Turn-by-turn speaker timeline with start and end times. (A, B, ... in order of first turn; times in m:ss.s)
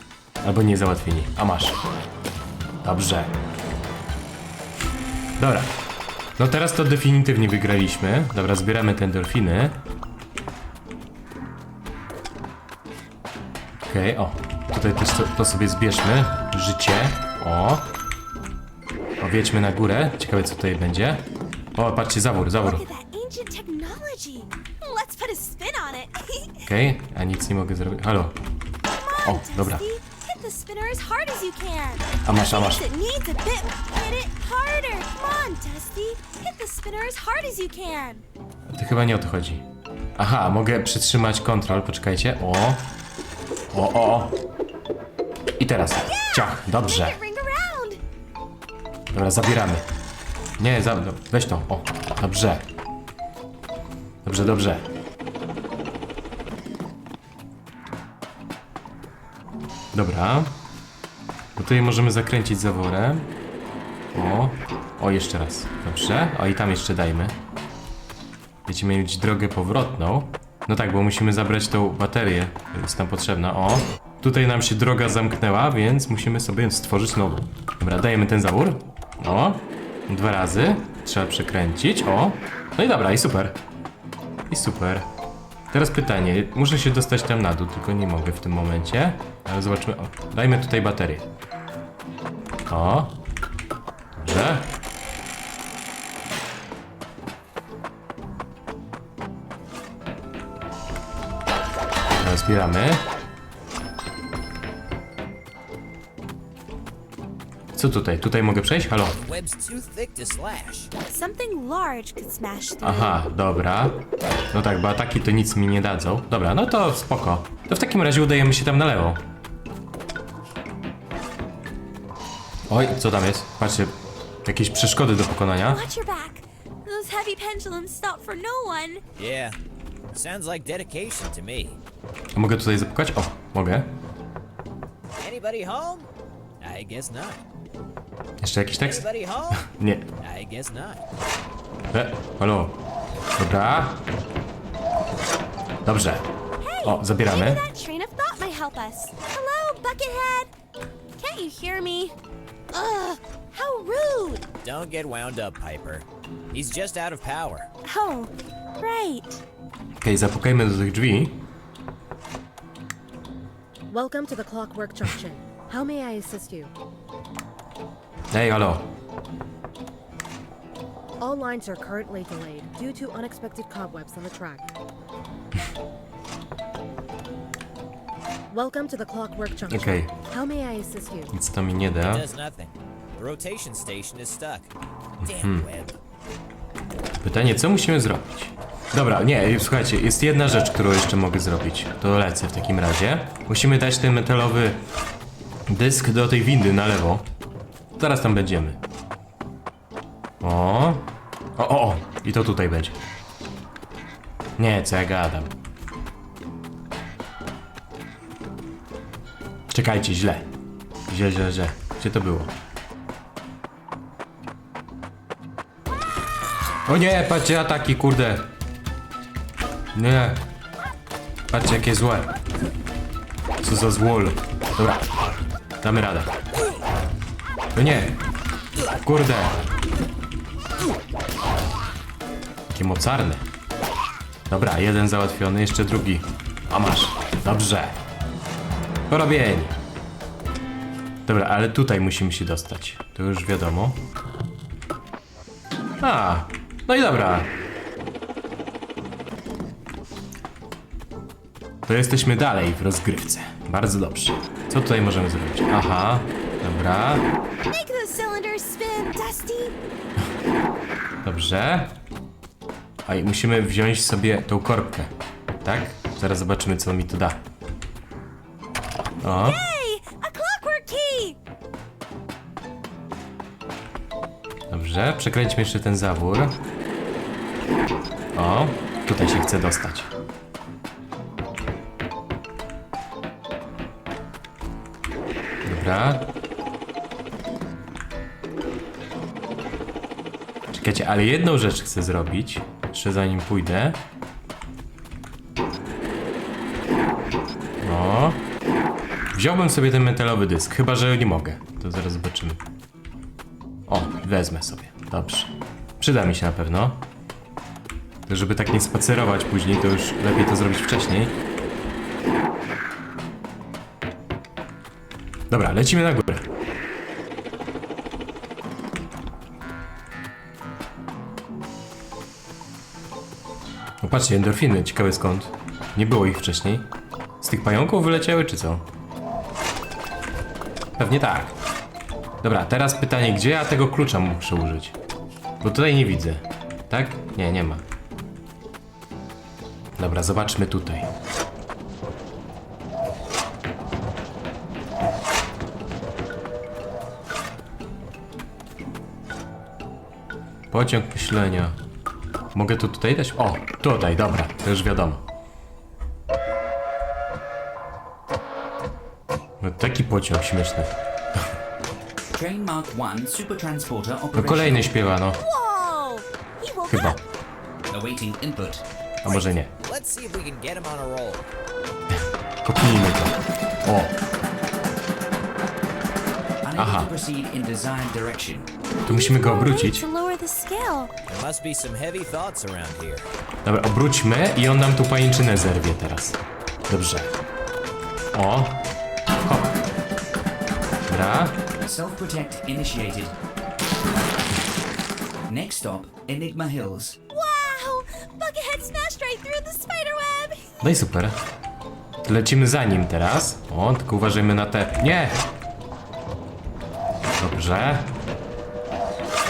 0:00.4-0:01.8 A
0:02.8-0:03.4 A
0:05.4-0:05.7 A
0:06.4-0:09.8 A
0:13.8-0:17.9 A
0:19.2-0:22.8 A
0:22.6-0:26.6 B
0:26.7-0:28.4 A
0:28.9-0:38.2 B
0:29.2-0:29.8 A
0:32.2-0:32.8 A
0:38.7-0:39.6 A
0:40.2-0:42.9 A
0:43.7-0:44.4 A
0:45.6-0:47.2 A
0:46.1-0:48.0 B
0:49.1-0:49.8 A
0:50.6-0:52.6 A
0:54.2-0:54.8 A
0:59.9-1:00.5 A
1:01.6-1:03.3 A
1:04.1-1:07.3 A
1:08.7-1:23.6 A
1:24.5-1:25.1 A
1:25.7-1:31.3 A
1:32.7-1:33.2 A
1:34.2-1:34.7 A
1:42.2-1:43.0 A
1:47.7-1:49.2 A
1:49.1-1:50.9 C
1:51.1-1:53.2 B
1:52.8-1:59.2 A
2:02.7-2:05.8 A
2:05.6-2:09.0 B
2:09.2-2:09.6 C
2:10.1-2:11.8 C
2:12.3-2:13.9 A
2:15.2-2:16.1 C
2:16.6-2:17.4 C
2:18.4-2:19.0 A
2:18.8-2:19.7 C
2:19.6-2:20.0 A
2:20.2-2:21.0 C
2:21.9-2:22.8 A
2:23.4-2:24.0 A
2:25.8-2:26.2 A
2:26.6-2:30.5 B
2:26.8-2:27.6 A
2:31.2-2:32.2 B
2:32.7-2:34.4 B
2:34.6-2:37.7 C
2:37.8-2:39.4 B
2:40.0-2:41.4 A
2:43.9-2:46.7 D
2:48.3-2:48.9 A
2:51.2-2:54.7 D
2:58.5-3:01.3 D
2:59.7-3:00.1 A
3:01.3-3:02.2 A
3:02.0-3:06.0 C
3:05.4-3:05.7 A
3:07.2-3:14.8 A
3:15.7-3:17.2 A
3:18.0-3:18.8 A
3:20.4-3:22.9 A
3:24.6-3:25.5 A
3:29.7-3:30.4 A
3:31.1-3:32.5 A
3:36.8-3:38.5 A
3:39.9-3:40.4 A
3:41.5-3:42.3 A
3:43.6-3:45.1 A
3:45.8-3:46.3 A
3:47.7-3:48.2 A
3:49.0-3:49.6 A
3:52.7-3:53.4 A
3:54.5-3:58.0 A
3:59.1-3:59.7 A
4:01.3-4:04.0 A
4:06.0-4:07.5 A
4:11.8-4:17.3 A
4:17.7-4:19.8 B
4:21.2-4:22.0 A
4:23.1-4:27.4 A
4:29.2-4:31.4 B
4:29.2-4:29.6 A
4:34.7-4:36.6 A
4:38.3-4:40.1 A
4:45.6-4:46.3 A
4:50.7-4:54.0 A
4:57.8-4:58.4 A
4:59.3-5:02.6 A
5:03.9-5:07.0 A
5:08.3-5:11.3 A
5:15.5-5:16.4 A
5:24.0-5:26.8 A
5:27.4-5:28.8 A
5:31.0-5:31.5 A
5:32.4-5:34.9 A
5:35.6-5:37.8 A
5:40.0-5:41.1 A
5:50.7-5:51.8 A
5:52.5-5:55.2 A
5:59.6-6:00.9 A
6:02.3-6:05.0 E
6:04.3-6:05.4 A
6:05.4-6:07.2 B
6:06.9-6:07.2 A
6:07.9-6:08.8 E
6:09.2-6:09.7 A
6:09.2-6:11.4 C
6:12.1-6:14.2 A
6:16.6-6:18.7 E
6:16.8-6:17.1 A
6:19.0-6:20.0 A
6:19.1-6:21.1 B
6:21.3-6:23.3 C
6:23.6-6:27.4 A
6:28.3-6:28.8 A
6:29.4-6:29.8 A
6:31.1-6:31.5 A
6:31.8-6:33.4 E
6:35.5-6:37.2 E
6:37.3-6:40.6 B
6:40.8-6:41.4 A
6:42.2-6:45.4 A
6:47.4-6:48.1 A